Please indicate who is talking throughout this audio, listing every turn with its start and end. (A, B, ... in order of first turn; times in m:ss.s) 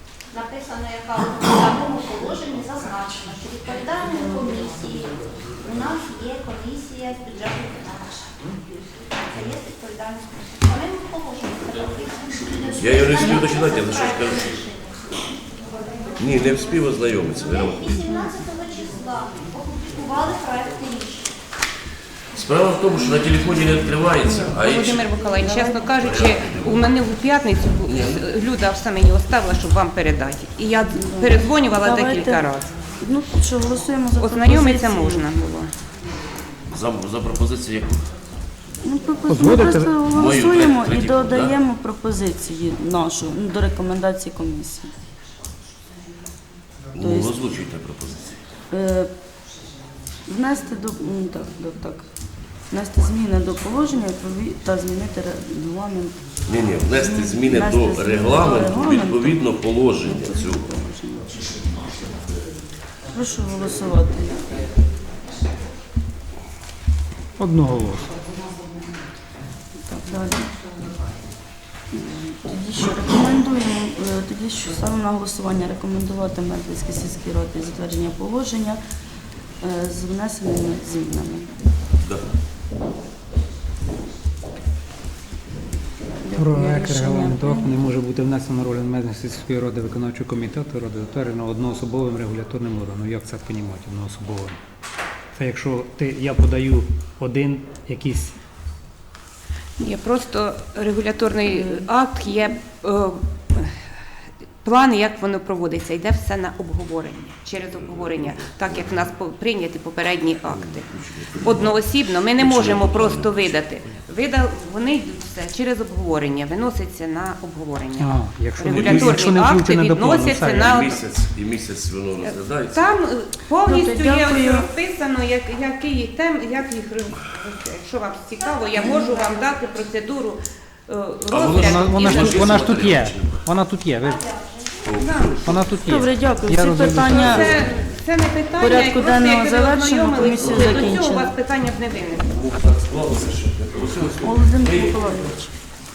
0:00.3-0:15.1 A
0:12.8-0:14.6 B
0:15.8-0:16.2 A
0:16.2-0:17.9 B
0:17.4-0:21.3 A
0:22.3-0:25.2 B
0:24.2-0:32.8 C
0:26.0-0:26.9 B
0:27.8-0:28.2 B
0:30.9-0:32.4 D
0:33.0-0:35.2 D
0:34.2-0:35.7 C
0:36.7-0:38.1 B
0:38.8-0:44.9 D
0:39.3-0:40.0 E
0:40.1-0:41.6 B
0:46.9-0:48.4 B
0:47.0-0:47.4 D
0:48.7-0:49.1 D
0:50.3-0:52.1 D
0:52.7-0:56.3 D
0:56.5-1:00.7 B
0:56.9-0:59.4 D
1:00.0-1:01.3 D
1:03.1-1:04.6 D
1:07.4-1:08.1 E
1:09.9-1:10.5 D
1:11.9-1:18.8 D
1:19.6-1:21.5 D
1:26.2-1:27.8 D
1:26.3-1:34.6 E
1:35.3-1:38.4 E
1:39.8-1:43.8 C
1:41.5-1:41.8 D
1:44.6-2:01.0 C
1:47.8-1:48.9 B
1:50.5-1:53.8 B
1:58.0-2:00.8 E
1:58.7-1:59.2 B
2:00.6-2:02.9 B
2:02.2-2:12.9 C
2:03.6-2:04.7 D
2:08.7-2:09.3 A
2:11.3-2:13.4 B
2:11.5-2:14.2 E
2:14.1-2:14.8 A
2:14.8-2:15.6 B
2:15.0-2:15.4 C
2:15.4-2:17.6 E
2:15.8-2:17.6 D
2:17.0-2:22.3 C
2:18.6-2:21.3 D
2:20.6-2:20.9 B
2:22.3-2:25.4 B
2:24.2-2:25.5 D